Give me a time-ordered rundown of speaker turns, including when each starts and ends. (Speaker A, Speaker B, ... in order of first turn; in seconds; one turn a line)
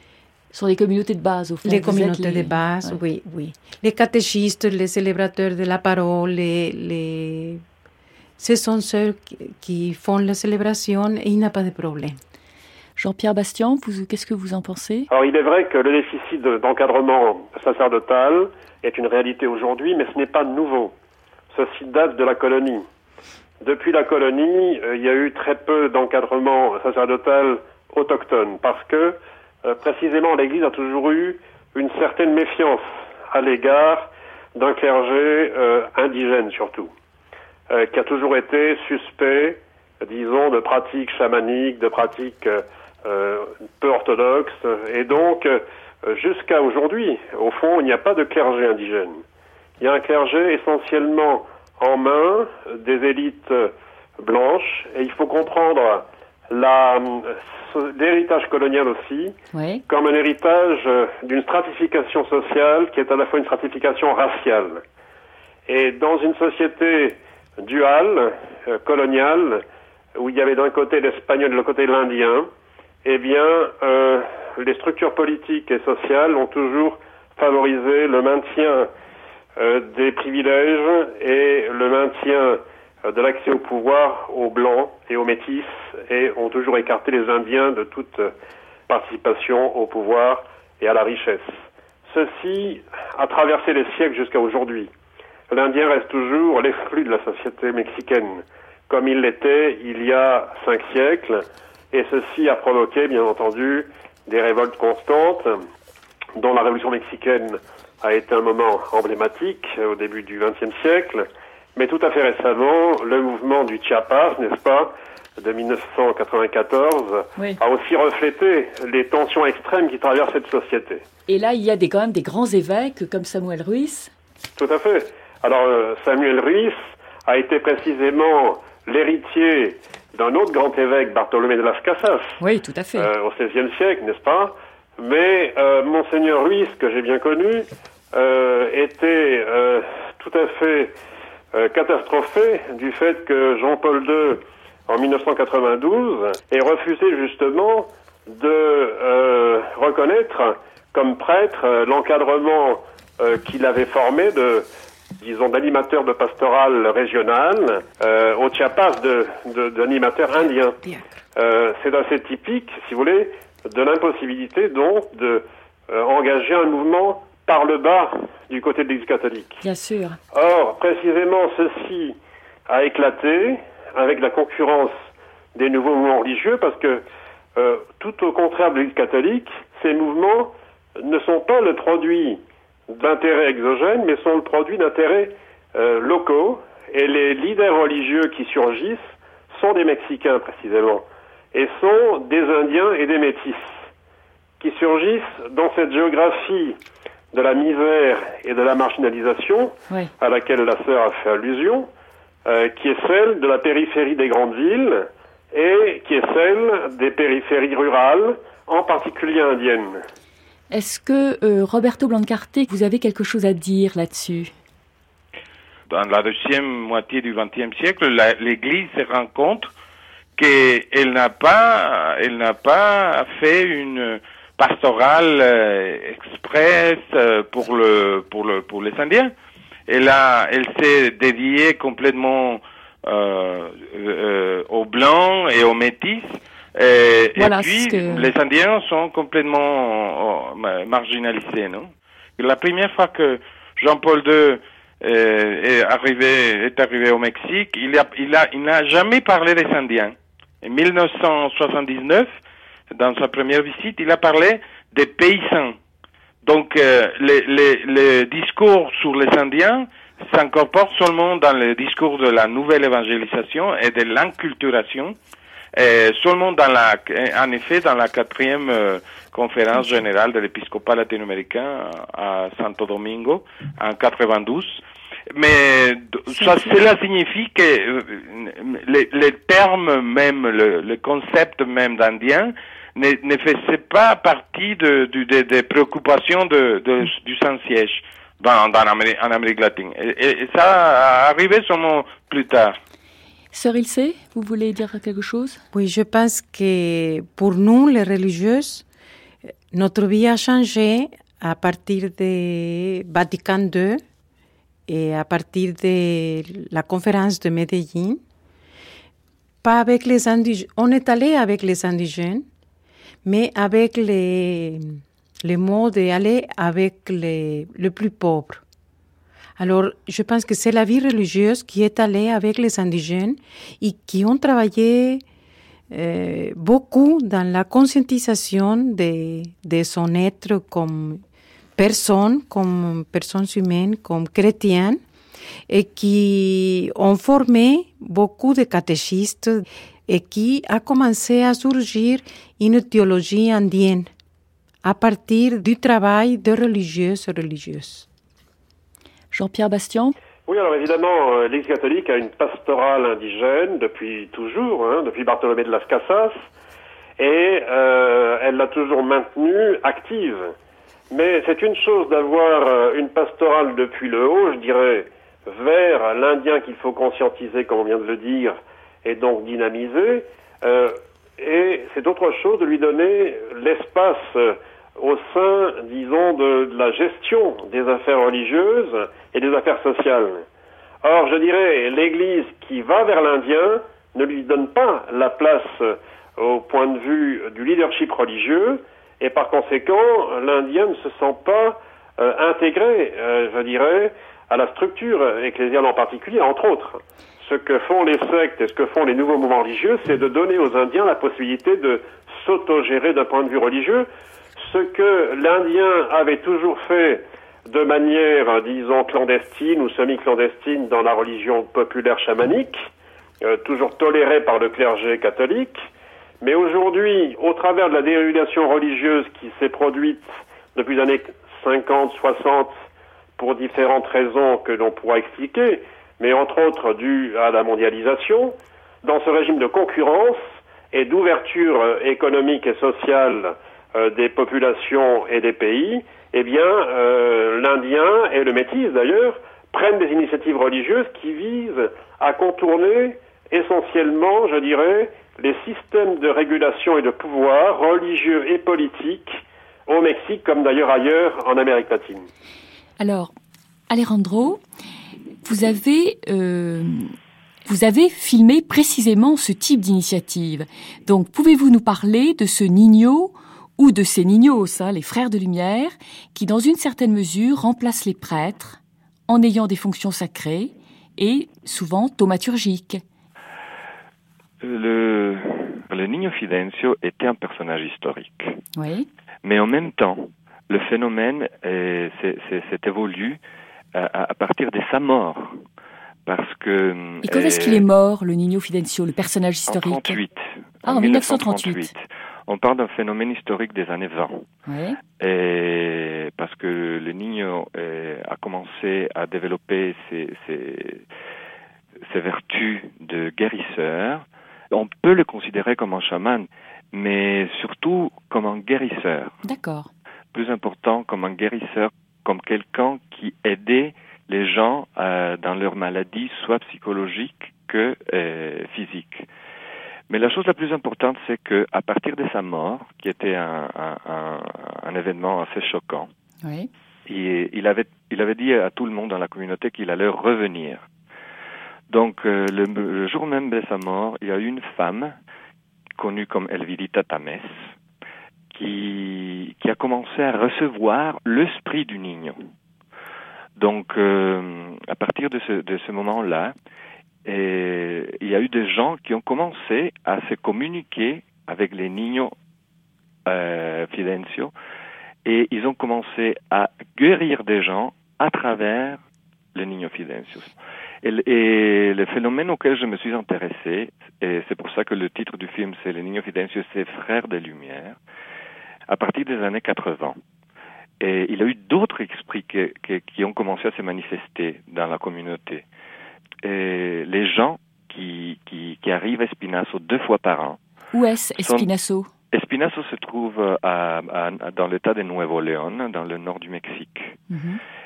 Speaker A: 0.5-3.0
Speaker B: 1.6-7.6
Speaker B: 8.4-12.2
Speaker A: 13.0-15.1
Speaker C: 15.1-20.9
Speaker C: 21.5-22.8
Speaker C: 23.6-36.9
Speaker C: 37.7-49.2
Speaker C: 49.8-59.3
Speaker A: 59.5-59.8
Speaker C: 59.9-64.8
Speaker C: 65.7-69.6
Speaker C: 70.2-72.5
Speaker C: 73.0-78.9
Speaker C: 79.6-88.3
Speaker C: 88.9-94.9
Speaker C: 95.5-105.6
Speaker C: 106.4-121.0
Speaker A: 121.3-124.1
Speaker C: 124.6-132.4
Speaker A: 132.4-133.1
Speaker C: 133.0-140.9
Speaker C: 141.5-154.7
Speaker C: 155.2-160.8
Speaker C: 161.3-169.6
Speaker A: 169.6-170.2
Speaker C: 170.3-172.2
Speaker C: 172.7-177.0
Speaker C: 177.6-193.8
Speaker C: 194.6-196.8
Speaker C: 197.3-201.9
Speaker C: 202.4-210.0
Speaker A: 210.7-214.5
Speaker D: 215.9-219.7
Speaker D: 220.3-229.3
Speaker D: 229.9-252.3
Speaker A: 237.3-238.3
Speaker D: 252.9-255.8
Speaker D: 256.4-265.1
Speaker D: 265.7-292.8
Speaker A: 276.3-276.8
Speaker A: 293.5-295.6
Speaker B: 295.7-298.8
Speaker B: 299.7-304.0
Speaker B: 304.9-308.2
Speaker B: 309.6-312.4
Speaker B: 313.2-318.6
Speaker B: 319.6-325.2
Speaker B: 325.9-331.2
Speaker B: 331.8-335.0
Speaker B: 335.7-344.1
Speaker B: 344.8-348.1
Speaker A: 349.3-350.1
Speaker C: 350.5-356.4
Speaker C: 357.2-360.5
Speaker C: 361.1-380.4
Speaker C: 381.0-404.1
Speaker C: 404.6-412.9
Speaker C: 413.4-415.8
Speaker C: 416.4-422.7
Speaker C: 423.4-430.4
Speaker C: 430.9-452.3
Speaker A: 453.0-453.3
Speaker A: 453.9-454.6
Speaker A: 455.4-457.1
Speaker A: 457.6-473.0
Speaker E: 474.6-478.6
Speaker A: 478.8-479.1
Speaker E: 479.4-483.4
Speaker E: 483.9-485.6
Speaker E: 486.2-487.8
Speaker A: 487.2-490.2
Speaker E: 489.7-494.4
Speaker A: 490.8-491.9
Speaker A: 494.7-495.0
Speaker E: 495.2-501.0
Speaker E: 502.1-509.4
Speaker A: 509.4-509.9
Speaker E: 510.3-519.3
Speaker E: 520.1-526.1
Speaker A: 526.4-526.7
Speaker E: 527.1-530.8
Speaker E: 531.9-535.1
Speaker E: 536.0-537.7
Speaker E: 538.5-542.4
Speaker E: 543.6-546.5
Speaker E: 547.2-552.3
Speaker E: 553.3-554.5
Speaker E: 555.2-559.0
Speaker E: 559.5-568.0
Speaker E: 568.9-570.2
Speaker E: 571.0-575.6
Speaker E: 576.4-580.6
Speaker A: 580.9-582.1
Speaker E: 581.4-581.7
Speaker E: 582.3-587.2
Speaker A: 587.3-587.6